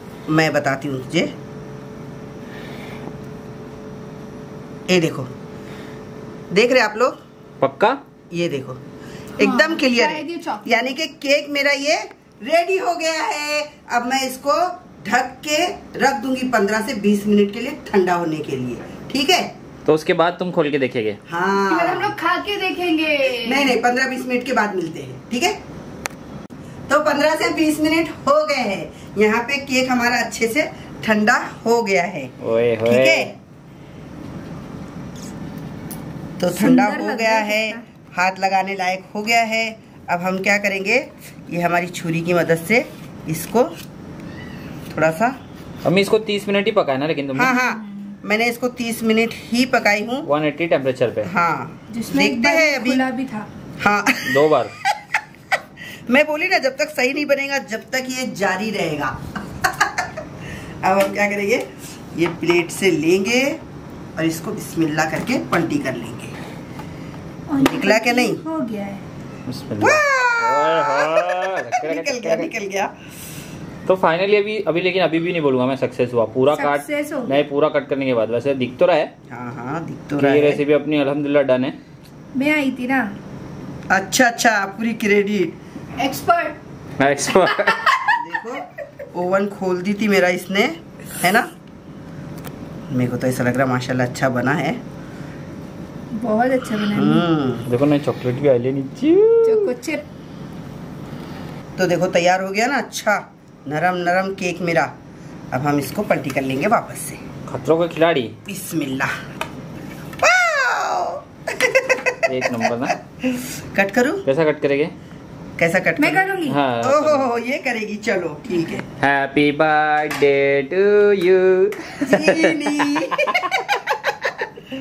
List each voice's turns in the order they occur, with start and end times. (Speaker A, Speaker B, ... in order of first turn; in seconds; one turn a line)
Speaker A: 0.3-1.3
Speaker A: 4.9-5.3
Speaker A: 6.5-7.2
Speaker B: 7.6-8.0
Speaker A: 8.3-8.8
Speaker A: 9.4-19.5
Speaker C: 9.4-10.9
Speaker B: 19.9-21.2
Speaker A: 21.3-22.1
Speaker C: 21.7-23.7
Speaker A: 23.3-25.6
Speaker A: 26.9-33.4
Speaker B: 32.4-33.3
Speaker A: 36.4-43.7
Speaker C: 36.5-37.8
Speaker A: 44.9-45.4
Speaker B: 45.9-47.5
Speaker A: 47.4-50.3
Speaker C: 47.5-48.1
Speaker B: 50.3-51.3
Speaker A: 51.3-53.0
Speaker C: 51.9-53.5
Speaker A: 53.8-55.2
Speaker B: 54.2-54.7
Speaker A: 56.1-60.1
Speaker A: 60.8-63.6
Speaker A: 64.2-66.4
Speaker C: 67.5-69.0
Speaker A: 67.6-68.4
Speaker B: 69.5-72.5
Speaker A: 69.8-72.9
Speaker B: 73.9-79.1
Speaker C: 76.5-77.3
Speaker A: 79.3-80.6
Speaker B: 80.2-81.8
Speaker C: 82.3-83.1
Speaker A: 83.9-85.6
Speaker C: 86.0-86.6
Speaker B: 87.0-87.8
Speaker C: 87.3-88.2
Speaker A: 88.1-91.5
Speaker A: 92.9-94.8
Speaker C: 96.1-97.3
Speaker A: 96.9-97.7
Speaker B: 97.7-99.7
Speaker C: 99.4-100.0
Speaker A: 101.8-104.9
Speaker A: 105.5-107.2
Speaker B: 107.5-108.3
Speaker A: 108.5-109.1
Speaker A: 110.2-114.2
Speaker B: 112.3-113.0
Speaker B: 114.2-114.9
Speaker A: 115.6-118.8
Speaker C: 116.0-116.6
Speaker B: 116.5-117.3
Speaker B: 119.0-123.5
Speaker A: 122.0-124.4